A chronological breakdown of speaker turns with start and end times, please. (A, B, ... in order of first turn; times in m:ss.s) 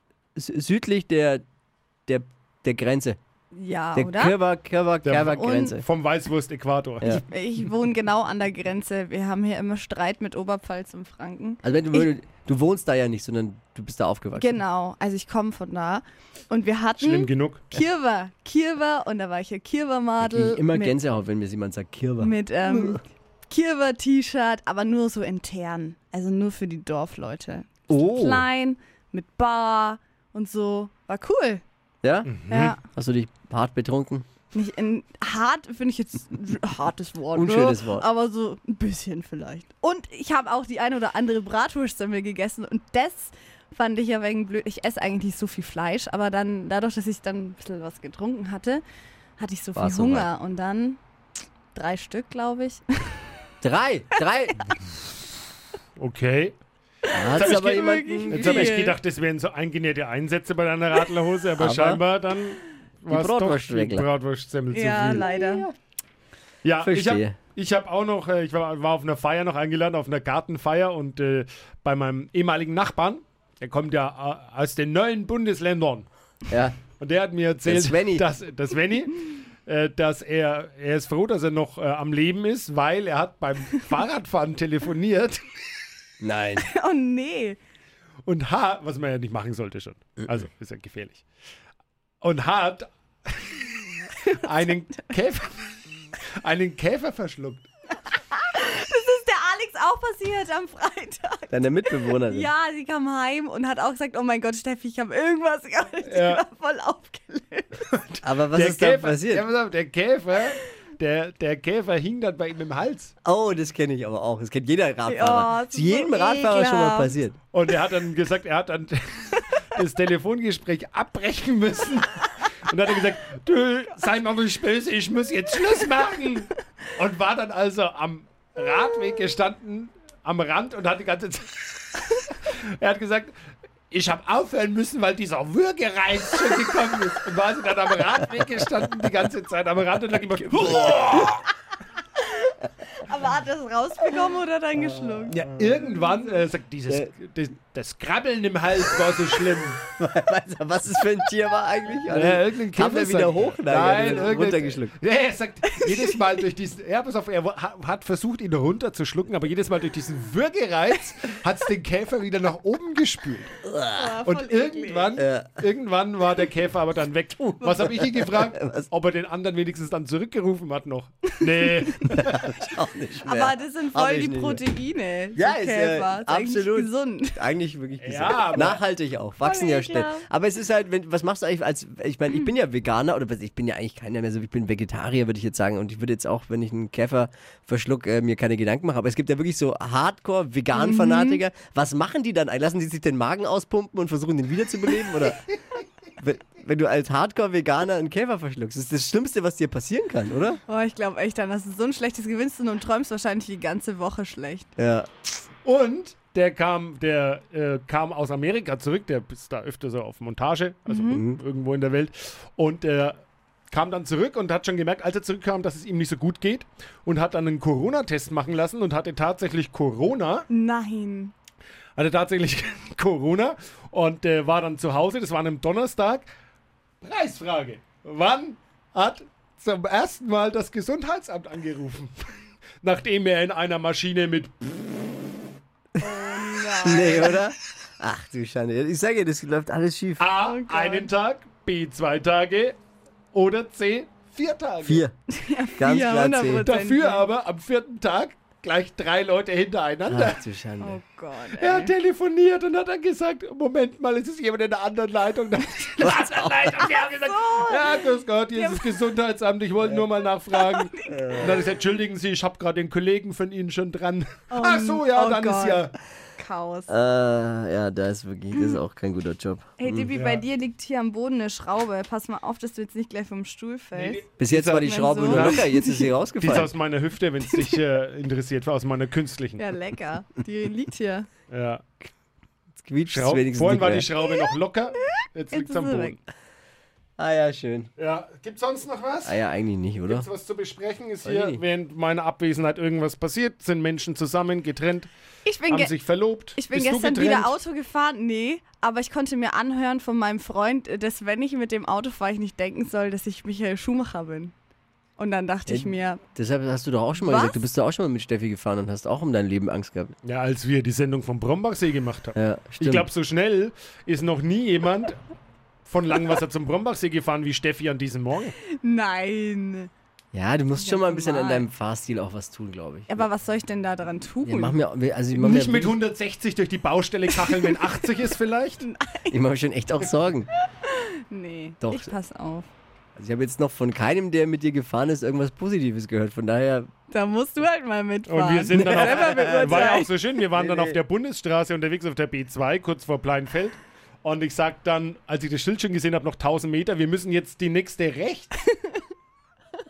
0:00.4-0:01.4 A
0:02.1-0:03.2 A
0:03.5-0:04.4 B
0:03.9-0:05.8 A
0:05.0-0:07.2 C
0:05.3-0:05.8 B
0:07.0-0:12.1 B
0:11.6-0:14.6 A
0:14.4-0:21.0 B
0:17.0-0:17.7 C
0:20.2-0:23.0 A
0:22.2-0:31.6 B
0:27.9-0:28.5 A
0:32.0-0:34.2 A
0:32.2-0:32.7 C
0:32.5-0:32.8 B
0:34.5-0:48.8 B
0:37.3-0:38.0 A
0:49.4-0:51.0 B
0:49.8-0:50.3 A
0:51.7-0:52.8 B
0:53.6-0:54.6 A
0:56.0-0:56.6 C
0:57.1-0:59.0 B
0:57.1-0:58.7 A
0:57.3-1:05.2 C
1:01.6-1:02.0 A
1:03.1-1:04.1 A
1:04.7-1:05.7 B
1:05.0-1:05.7 A
1:06.6-1:16.1 C
1:06.8-1:07.4 A
1:16.5-1:16.8 A
1:16.9-1:25.4 C
1:17.6-1:18.2 A
1:26.2-1:26.7 A
1:26.6-1:27.6 B
1:28.2-1:31.2 C
1:32.2-1:33.7 C
1:34.2-1:35.7 C
1:36.4-1:37.7 C
1:38.3-1:47.9 B
1:41.5-1:42.5 A
1:46.1-1:46.4 C
1:47.9-1:53.1 C
1:48.2-1:49.5 A
1:53.2-1:57.4 A
1:55.1-1:57.1 B
1:57.5-2:13.4 C
2:13.9-2:21.4 C
2:20.5-2:21.3 A
2:23.0-2:25.4 B
2:24.8-2:26.0 A
2:25.3-2:29.8 C
2:29.8-2:34.9 A
2:32.1-2:43.6 C
2:43.6-2:44.2 A
2:43.9-2:45.2 B
2:44.2-2:52.6 C
2:45.1-2:45.6 A
2:47.8-2:48.9 A
2:52.1-2:54.6 A
2:53.2-2:57.4 B
2:55.3-3:15.5 A
2:58.0-2:58.8 C
2:59.4-3:00.2 B
3:10.7-3:11.4 B
3:16.2-3:20.6 A
3:20.7-3:24.7 B
3:24.8-3:25.1 A
3:25.6-3:40.4 C
3:30.9-3:31.2 B
3:31.1-3:31.4 A
3:40.5-3:41.3 B
3:42.0-3:46.3 C
3:47.0-3:52.3 C
3:52.8-3:55.0 C
3:56.0-3:57.4 B
3:56.8-4:00.3 A
4:00.2-4:02.8 C
4:00.4-4:01.1 B
4:03.3-4:05.0 C
4:04.8-4:05.1 A
4:05.3-4:07.2 B
4:05.8-4:06.7 A
4:06.6-4:10.4 C
4:10.1-4:11.0 A
4:10.8-4:11.9 B
4:11.6-4:25.9 C
4:16.0-4:16.8 A
4:16.8-4:18.9 B
4:20.5-4:21.3 B
4:21.1-4:21.6 A
4:24.5-4:26.9 B
4:26.9-4:30.1 A
4:29.8-4:34.2 B
4:30.1-4:30.4 C
4:33.9-4:35.6 C
4:34.4-4:36.7 A
4:34.8-4:36.1 B
4:36.4-4:39.6 C
4:37.4-4:37.8 B
4:39.6-4:41.3 B
4:41.5-4:41.9 C
4:42.8-4:44.1 A
4:43.1-4:46.2 C
4:45.5-4:46.2 B
4:47.2-4:47.9 A
4:48.0-4:49.4 C
4:49.2-4:50.3 A
4:50.0-4:55.1 C
4:51.2-4:51.6 A
4:55.4-4:55.9 B
4:55.7-4:57.5 C
4:56.5-5:04.5 B
5:05.2-5:06.2 B
5:05.7-5:10.1 A
5:07.2-5:07.6 B
5:10.2-5:15.2 C
5:12.3-5:13.1 A
5:15.8-5:18.5 C
5:18.7-5:19.9 B
5:20.3-5:23.2 A
5:20.7-5:21.7 B
5:23.1-5:24.8 B
5:24.4-5:25.9 A
5:25.3-5:28.8 C
5:27.4-5:27.9 B
5:28.8-5:29.4 B
5:29.3-5:30.5 A
5:30.8-5:32.7 B
5:31.8-5:32.1 A
5:33.2-5:36.9 A
5:37.1-5:40.1 B
5:38.3-5:48.5 C
5:38.7-5:41.0 A